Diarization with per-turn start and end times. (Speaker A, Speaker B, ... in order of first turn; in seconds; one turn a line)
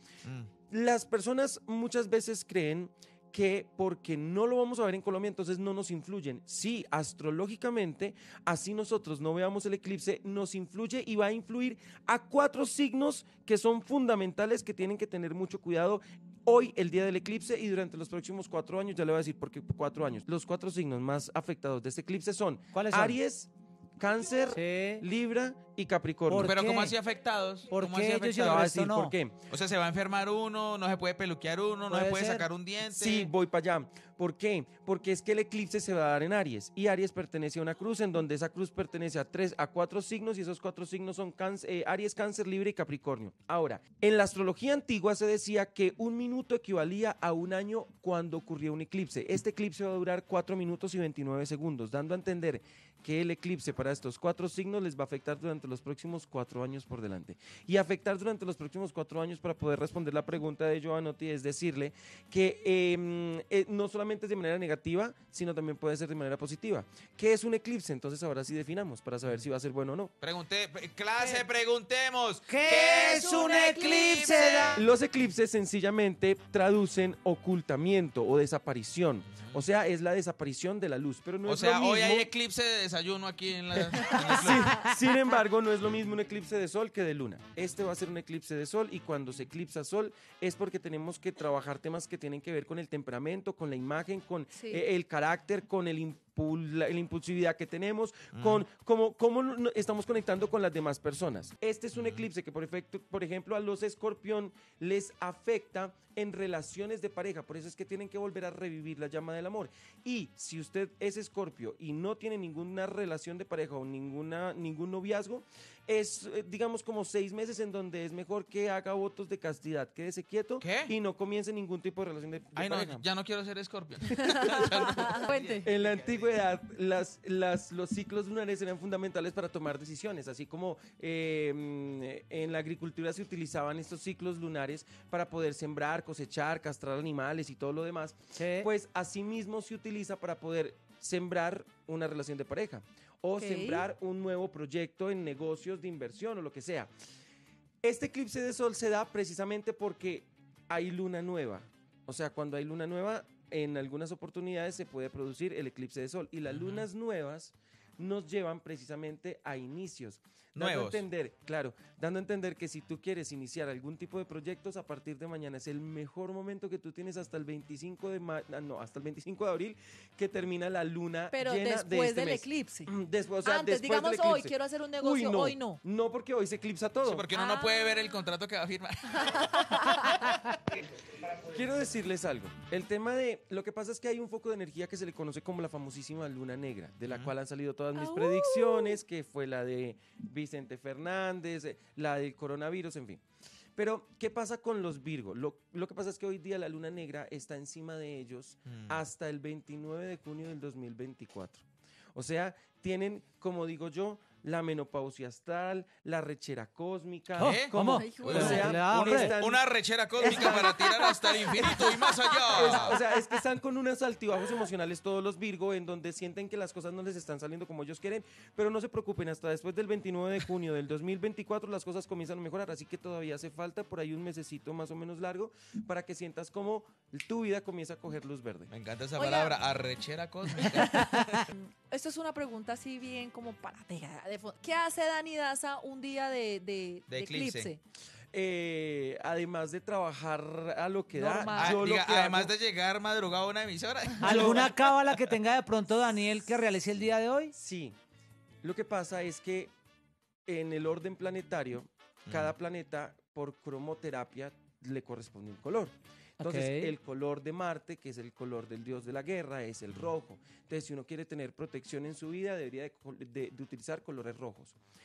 Speaker A: 0.2-0.5
Speaker B: 0.7-26.5
Speaker C: 22.7-23.2
Speaker C: 24.5-25.0
Speaker C: 26.3-26.9
Speaker A: 26.4-28.7
Speaker C: 27.7-29.1
Speaker B: 28.3-29.4
Speaker A: 29.5-33.3
Speaker C: 31.9-32.5
Speaker B: 32.8-70.1
Speaker A: 70.2-74.8
Speaker C: 72.5-74.8
Speaker D: 72.7-74.8
Speaker B: 74.7-82.3
Speaker A: 79.3-79.6
Speaker A: 81.4-84.8
Speaker B: 84.1-123.0
Speaker D: 94.5-94.8
Speaker A: 98.3-98.6
Speaker A: 101.9-102.2
Speaker A: 120.6-120.9
Speaker A: 122.5-126.3
Speaker D: 124.1-125.7
Speaker B: 125.6-146.9
Speaker C: 138.3-138.7
Speaker D: 143.4-143.8
Speaker B: 147.8-177.2
Speaker A: 156.5-156.8
Speaker A: 160.5-161.0
Speaker D: 171.3-172.9
Speaker D: 173.4-175.8
Speaker A: 177.0-179.9
Speaker D: 177.3-178.2
Speaker D: 179.1-180.3
Speaker A: 180.8-181.2
Speaker B: 181.3-193.2
Speaker A: 187.1-187.3
Speaker D: 187.9-189.0
Speaker B: 193.8-209.6
Speaker A: 198.7-199.0
Speaker C: 207.4-209.3
Speaker A: 207.4-213.0
Speaker D: 207.8-208.8
Speaker B: 210.2-210.7
Speaker D: 210.2-213.0
Speaker B: 212.5-228.7
Speaker A: 228.7-231.5
Speaker D: 229.2-229.6
Speaker D: 230.6-237.8
Speaker A: 237.1-237.7
Speaker B: 238.3-242.5
Speaker D: 241.1-241.8
Speaker A: 241.5-245.3
Speaker B: 244.2-244.7
Speaker C: 244.2-247.5
Speaker B: 247.5-247.9
Speaker B: 248.6-249.7
Speaker B: 250.4-264.8
Speaker A: 252.2-252.5
Speaker C: 256.4-256.9